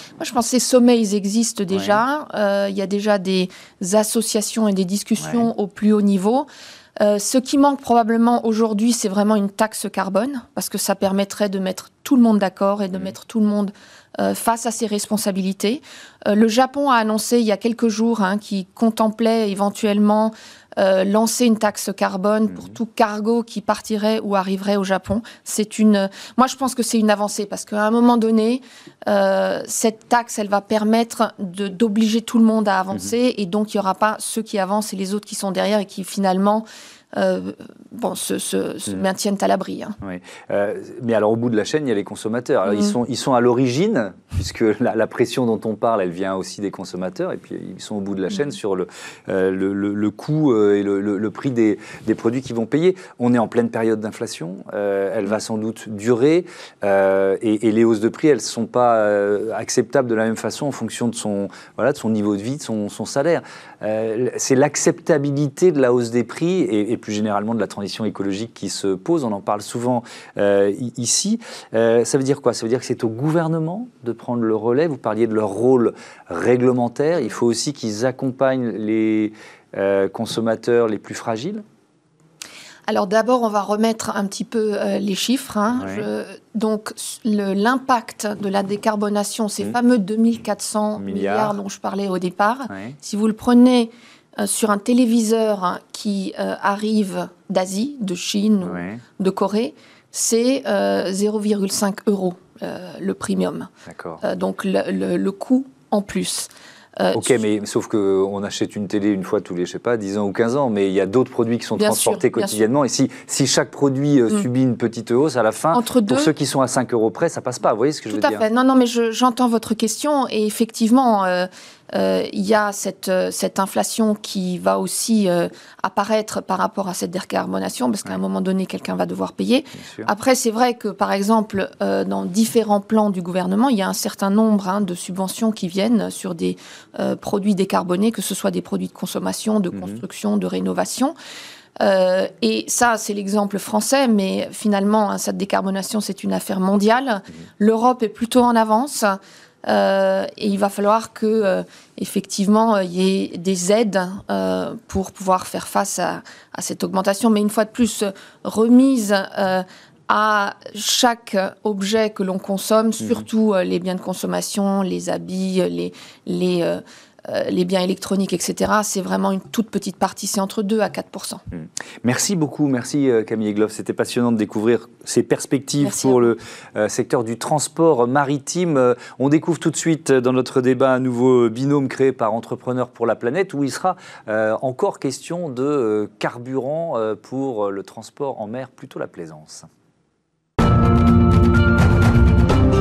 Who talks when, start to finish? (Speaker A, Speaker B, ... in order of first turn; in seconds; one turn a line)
Speaker A: 0.2-40.0
Speaker B: 1.7-2.0
Speaker B: 5.2-5.5
Speaker B: 22.5-22.8
Speaker B: 40.0-81.6
Speaker A: 42.7-42.9
Speaker A: 82.9-103.7
Speaker B: 85.7-86.1
Speaker B: 91.0-91.5
Speaker B: 92.7-93.0
Speaker B: 98.6-99.0
Speaker B: 103.8-104.2
Speaker A: 104.2-107.4
Speaker B: 107.1-118.5
Speaker A: 111.8-112.5
Speaker A: 115.7-116.3
Speaker A: 118.1-141.1
Speaker B: 129.8-130.1
Speaker B: 139.7-140.0
Speaker A: 141.8-171.4
Speaker B: 171.5-189.7
Speaker A: 175.8-176.3